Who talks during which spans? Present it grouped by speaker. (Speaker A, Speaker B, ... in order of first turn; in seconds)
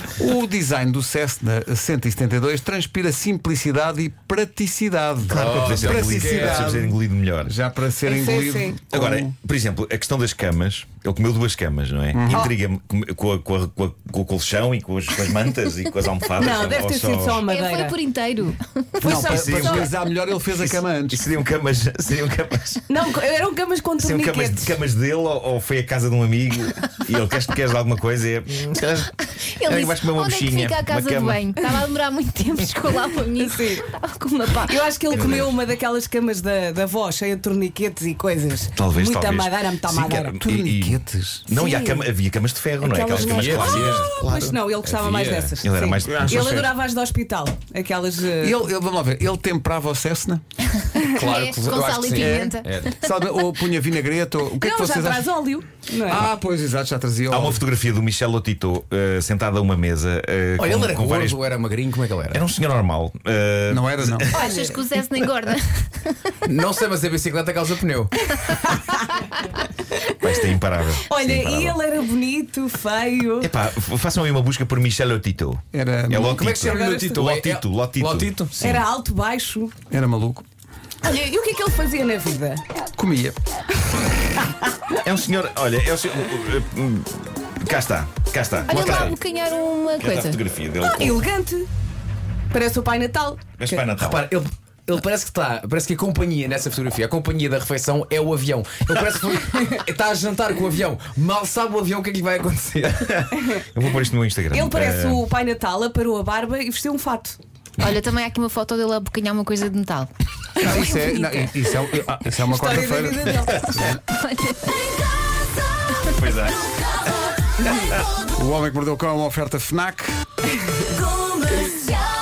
Speaker A: 0.1-9.3, 12.1-12.5, 19.0-21.3, 40.4-41.5, 46.0-46.7, 48.4-50.4, 52.1-55.3, 56.0-57.6, 63.7-64.3, 75.7-76.4, 79.9-80.4, 83.0-83.4, 110.6-114.0, 118.2-120.1
Speaker B: 5.3-6.8, 43.2-44.1, 44.8-45.5, 51.1-52.9, 60.6-62.4, 66.4-68.2, 76.3-78.8, 94.0-103.3
Speaker C: 5.3-7.5, 8.9-17.4, 19.0-19.9, 20.6-22.8, 24.0-31.9, 35.1-35.5, 38.7-44.6, 45.6-46.5, 57.3-61.4, 62.3-64.6, 70.2-71.8, 73.4-78.8, 85.0-89.2, 90.0-91.3, 93.6-94.3, 103.1-105.2, 116.1-116.7, 117.7-118.0
Speaker D: 8.0-8.8, 16.4-18.0, 22.9-24.8, 33.3-40.3, 41.5-42.1, 42.8-48.6, 54.6-56.3, 64.3-64.8, 68.3-69.2, 69.9-70.2, 71.1-73.5, 76.6-77.2, 78.6-79.7, 81.0-82.6, 90.9-91.7, 92.5-93.8, 103.3-103.6, 104.5-107.4, 112.4-113.7, 120.7-122.0
Speaker E: 17.4-19.9, 29.6-35.4, 51.2-52.9, 64.3-66.2, 88.7-90.4, 107.8-111.5, 113.7-115.0